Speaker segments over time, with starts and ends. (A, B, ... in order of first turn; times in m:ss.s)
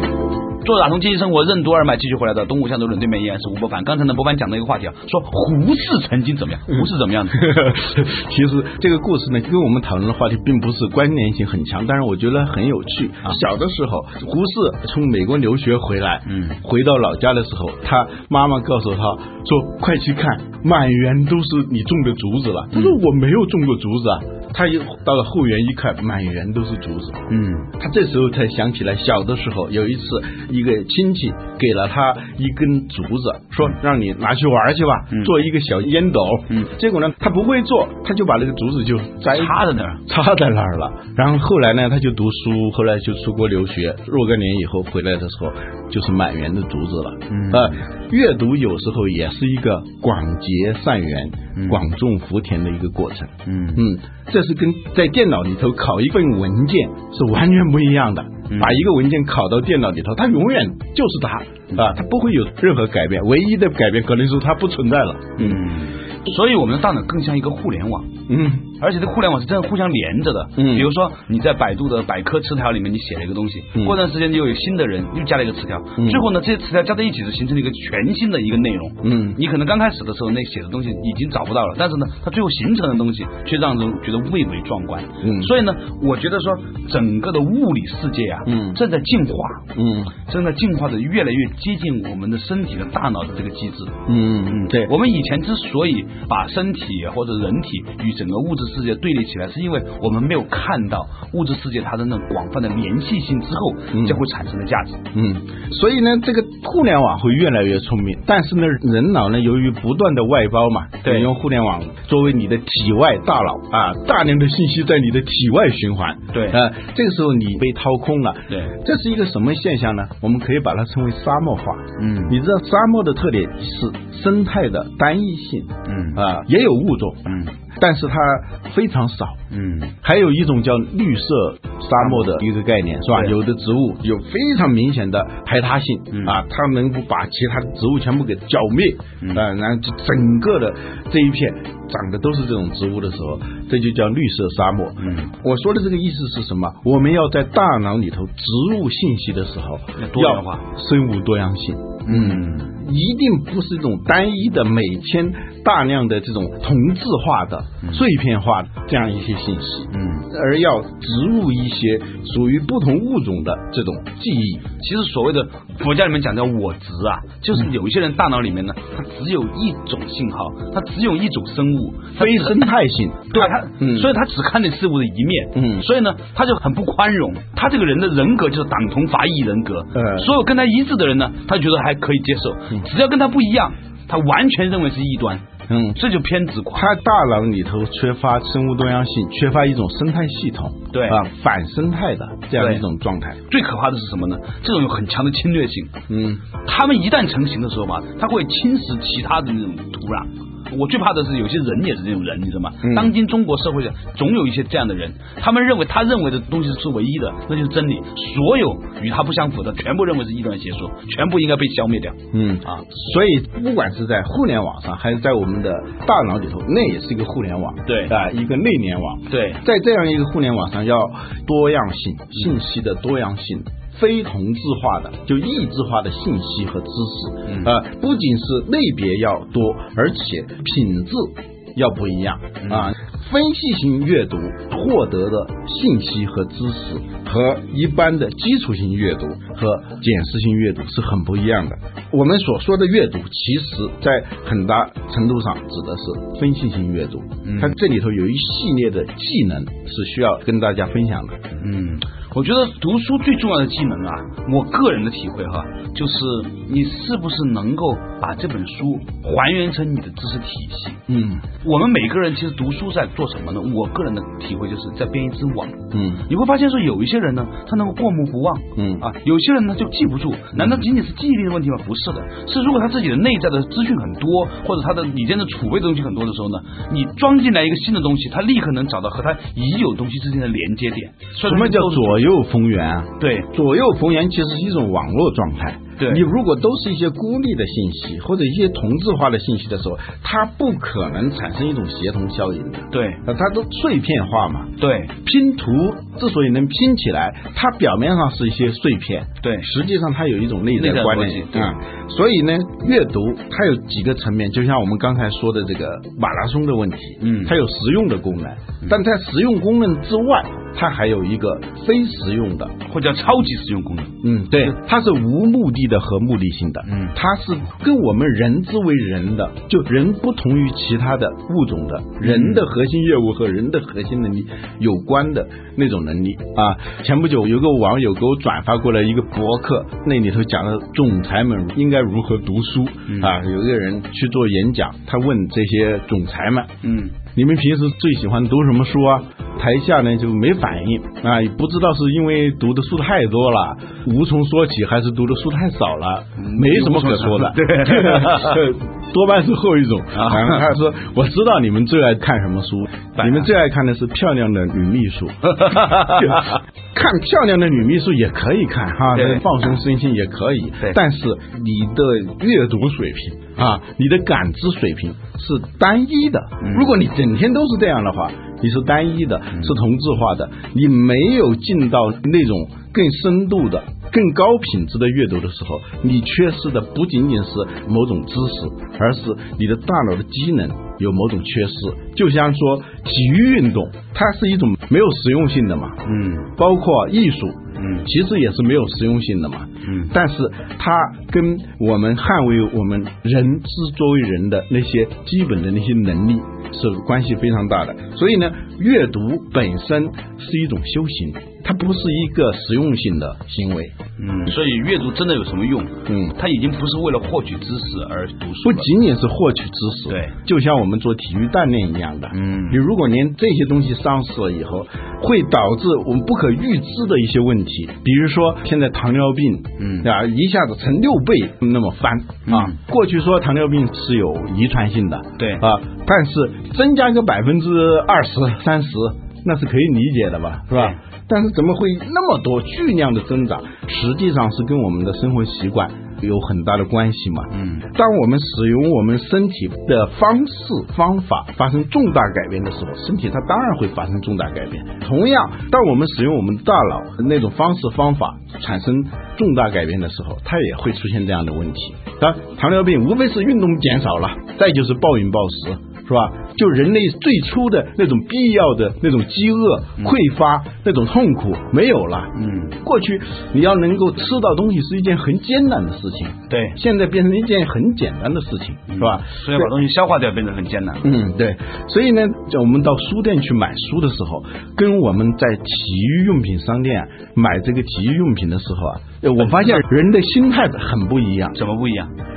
0:00.6-0:07.6 A
0:07.3-1:05.6 B
0:16.3-0:16.6 A
0:27.3-0:27.7 A
0:39.3-0:40.0 A
0:47.3-0:47.8 A
0:51.6-0:51.8 A
0:53.5-0:53.8 A
0:58.5-0:58.8 A
1:05.4-1:08.2 A
1:08.3-1:08.7 B
1:08.7-1:29.7 A
1:10.6-1:10.9 B
1:16.0-1:16.2 B
1:19.0-1:19.4 B
1:25.2-1:25.5 B
1:28.5-1:28.8 B
1:29.8-1:30.1 B
1:30.2-1:45.0 A
1:34.1-1:34.9 B
1:43.9-1:44.2 B
1:45.1-2:09.4 B
1:51.0-1:51.3 A
1:56.3-1:56.6 A
2:02.0-2:02.4 A
2:05.9-2:06.2 A
2:09.5-2:10.0 A
2:10.0-2:44.7 B
2:16.1-2:16.4 A
2:25.0-2:25.3 A
2:30.0-2:30.6 A
2:32.1-2:32.7 A
2:39.9-2:40.3 A
2:44.8-2:52.7 A
2:52.2-2:54.1 B
2:53.3-3:05.4 A
2:55.6-2:55.8 B
3:00.0-3:00.3 B
3:05.7-3:06.0 B
3:06.0-3:06.9 A
3:06.7-3:13.4 B
3:10.9-3:11.2 A
3:12.6-3:12.8 A
3:13.5-3:16.0 A
3:16.1-3:16.4 B
3:16.5-3:32.8 A
3:22.8-3:23.1 B
3:32.3-4:11.4 B
3:37.9-3:38.1 A
3:39.3-3:39.6 A
3:47.5-3:47.7 A
3:52.6-3:52.9 A
4:07.4-4:07.8 A
4:11.6-4:21.0 A
4:21.1-4:21.4 B
4:21.6-4:42.2 A
4:25.9-4:26.2 B
4:28.8-4:29.0 B
4:30.6-4:30.8 B
4:41.4-5:12.8 B
4:43.2-4:43.5 A
4:46.0-4:46.2 A
4:52.9-4:53.2 A
4:54.8-4:55.1 A
4:59.4-4:59.7 A
5:00.8-5:01.7 A
5:07.2-5:07.5 A
5:12.9-5:14.7 A
5:14.2-5:36.8 B
5:16.9-5:17.1 A
5:22.2-5:22.6 A
5:33.1-5:33.3 A
5:36.8-5:37.2 A
5:37.3-6:44.0 B
5:46.4-5:48.6 A
5:50.2-5:50.6 A
5:53.2-5:53.5 A
5:55.8-5:56.4 A
5:59.1-5:59.4 A
6:06.6-6:06.9 A
6:26.0-6:26.5 A
6:27.8-6:28.1 A
6:29.8-6:30.1 A
6:44.2-6:48.9 A
6:46.1-6:46.4 B
6:48.6-7:49.7 B
6:50.1-6:50.4 A
6:52.3-6:52.8 A
6:59.8-7:00.1 A
7:02.5-7:02.8 A
7:05.4-7:05.6 A
7:10.7-7:11.0 A
7:17.6-7:17.8 A
7:42.4-7:42.8 A
7:46.5-7:46.8 A
7:48.9-7:51.1 A
7:51.0-8:01.6 B
7:59.4-7:59.8 A
8:01.6-8:02.1 A